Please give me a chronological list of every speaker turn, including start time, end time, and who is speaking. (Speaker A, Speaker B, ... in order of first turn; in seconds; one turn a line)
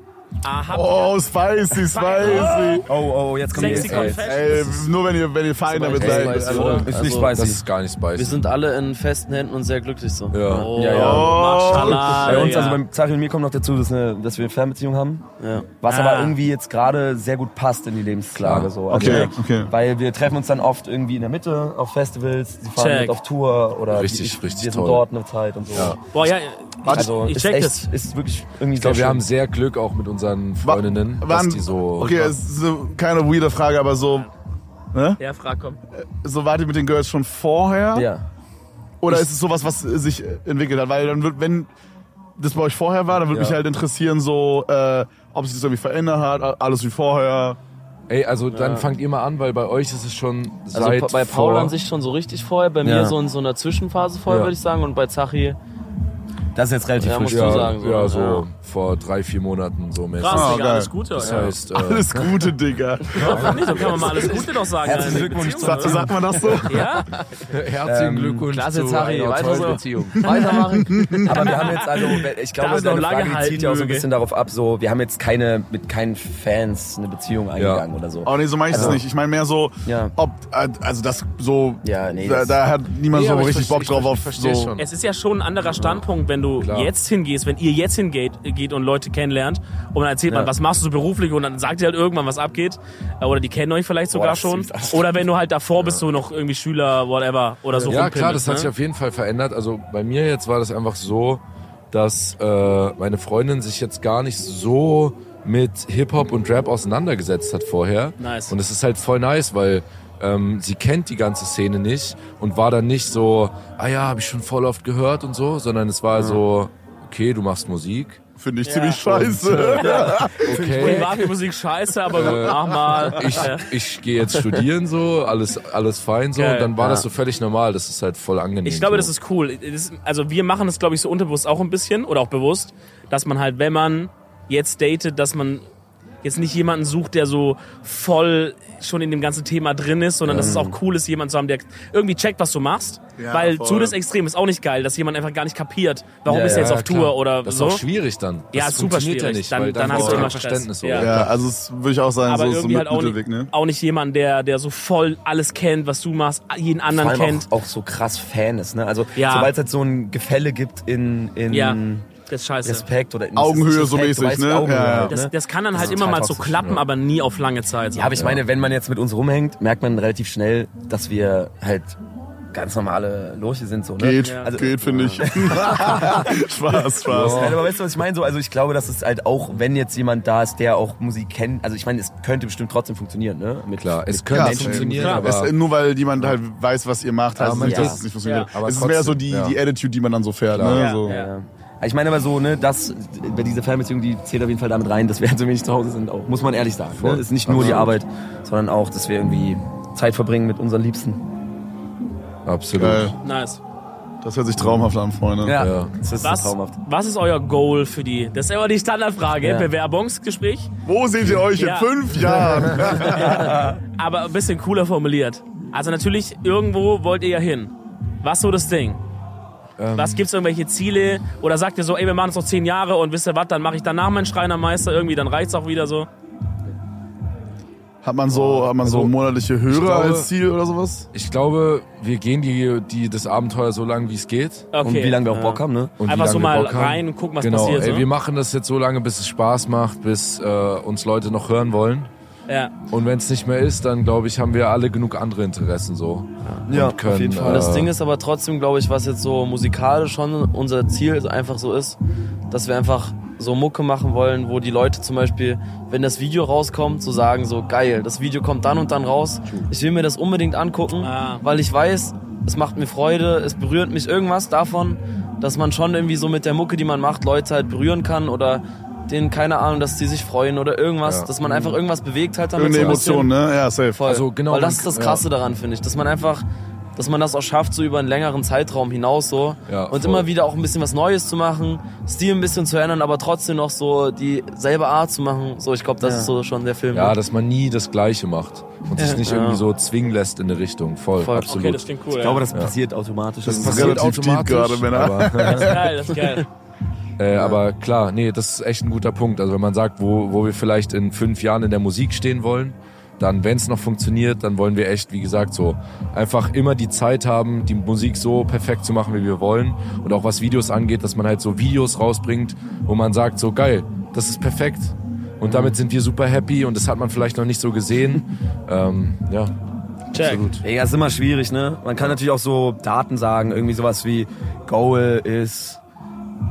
Speaker A: 0.4-2.9
Speaker B: 0.7-2.9
Speaker C: 2.8-4.2
Speaker A: 3.5-4.8
Speaker D: 3.6-4.2
Speaker B: 3.6-7.0
Speaker E: 5.7-7.5
Speaker C: 5.9-7.6
Speaker D: 6.6-8.5
Speaker E: 8.1-11.0
Speaker D: 10.3-10.8
Speaker A: 10.5-12.8
Speaker C: 10.7-15.3
Speaker B: 10.8-12.6
Speaker E: 15.4-15.7
Speaker C: 15.8-26.0
Speaker A: 15.8-16.4
Speaker D: 18.4-19.3
Speaker B: 18.9-19.7
Speaker A: 22.8-23.1
Speaker D: 23.9-25.0
Speaker D: 25.7-26.0
Speaker A: 26.1-27.9
Speaker B: 26.8-27.1
Speaker C: 26.9-29.2
Speaker D: 28.8-32.4
Speaker B: 30.6-34.3
Speaker B: 34.9-35.2
Speaker A: 35.2-35.8
Speaker B: 36.0-38.1
Speaker C: 37.9-38.2
Speaker B: 39.0-41.7
Speaker B: 42.4-47.6
Speaker C: 43.3-43.6
Speaker D: 48.1-51.7
Speaker E: 48.5-48.9
Speaker E: 50.7-55.6
Speaker C: 52.8-53.1
Speaker D: 54.3-54.5
Speaker C: 56.5-57.8
Speaker E: 57.0-58.4
Speaker D: 57.3-60.6
Speaker A: 60.2-61.5
Speaker B: 60.3-64.4
Speaker D: 61.1-62.2
Speaker A: 63.2-66.0
Speaker D: 63.2-63.6
Speaker C: 63.3-66.5
Speaker E: 64.0-65.4
Speaker B: 65.4-67.0
Speaker A: 66.7-67.1
Speaker D: 67.4-70.2
Speaker C: 67.8-68.5
Speaker E: 68.5-71.4
Speaker C: 69.0-70.5
Speaker B: 70.2-71.3
Speaker C: 71.2-79.0
Speaker A: 71.4-74.0
Speaker D: 77.5-77.8
Speaker B: 78.2-84.7
Speaker E: 78.7-79.0
Speaker C: 79.8-80.1
Speaker C: 81.8-82.6
Speaker D: 83.1-84.9
Speaker A: 84.8-98.7
Speaker D: 86.6-86.9
Speaker C: 90.3-90.5
Speaker C: 94.1-95.1
Speaker D: 95.8-96.1
Speaker D: 97.9-118.2
Speaker A: 108.2-108.5
Speaker B: 118.4-120.6
Speaker A: 118.6-119.2
Speaker D: 119.1-119.9
Speaker A: 119.7-123.7
Speaker D: 120.4-121.2
Speaker C: 120.5-121.2
Speaker D: 122.1-129.1
Speaker A: 126.3-126.7
Speaker E: 126.8-127.1
Speaker A: 128.6-135.6
Speaker A: 136.2-147.8
Speaker C: 140.2-140.8
Speaker B: 143.2-143.9
Speaker C: 146.2-146.8
Speaker D: 146.3-151.3
Speaker A: 148.5-151.1
Speaker B: 149.9-150.3
Speaker B: 151.0-153.5
Speaker A: 152.2-157.5
Speaker C: 156.9-162.1
Speaker A: 159.1-159.5
Speaker A: 161.5-162.8
Speaker C: 162.6-166.7
Speaker B: 163.3-165.1
Speaker A: 165.1-168.2
Speaker C: 167.9-172.0
Speaker D: 168.1-168.4
Speaker C: 172.5-176.4
Speaker B: 174.0-177.5
Speaker A: 174.2-174.5
Speaker D: 177.1-177.6
Speaker C: 177.1-185.2
Speaker D: 183.8-185.5
Speaker B: 184.3-191.2
Speaker A: 185.0-185.3
Speaker D: 187.4-189.6
Speaker C: 187.4-188.0
Speaker A: 188.2-188.5
Speaker D: 190.5-190.9
Speaker A: 190.7-191.3
Speaker C: 191.0-201.2
Speaker D: 196.9-198.0
Speaker D: 202.4-203.1
Speaker B: 202.7-203.2
Speaker A: 203.2-203.6
Speaker B: 204.2-205.6
Speaker C: 205.4-206.8
Speaker D: 205.6-205.9
Speaker A: 206.2-210.7
Speaker C: 209.4-209.7
Speaker B: 210.8-213.6
Speaker A: 211.6-211.9
Speaker C: 213.0-213.8
Speaker A: 213.0-219.0
Speaker D: 219.8-220.2
Speaker A: 219.9-226.1
Speaker B: 228.0-231.1
Speaker D: 228.8-229.1
Speaker D: 229.7-230.3
Speaker D: 231.1-234.7
Speaker A: 234.7-235.2
Speaker C: 234.8-235.9
Speaker E: 235.2-235.6
Speaker D: 236.0-242.1
Speaker A: 236.0-238.1
Speaker A: 242.5-242.7
Speaker D: 242.9-247.9
Speaker C: 246.7-247.8
Speaker E: 247.4-252.0
Speaker E: 252.5-273.3
Speaker A: 261.0-261.4
Speaker D: 271.0-271.3
Speaker B: 272.6-274.0
Speaker D: 272.6-273.1
Speaker E: 273.9-276.4
Speaker D: 274.0-275.2
Speaker E: 276.9-287.2
Speaker D: 279.7-280.3
Speaker C: 286.0-286.3
Speaker D: 286.9-291.9
Speaker E: 289.0-289.6
Speaker E: 291.2-291.7
Speaker A: 291.5-292.4
Speaker C: 292.2-294.1
Speaker B: 293.4-295.9
Speaker D: 293.5-295.8
Speaker C: 295.4-295.6
Speaker A: 295.4-296.5
Speaker D: 297.2-319.5
Speaker C: 315.4-315.8
Speaker A: 320.1-320.5
Speaker D: 320.1-320.6
Speaker C: 320.6-325.8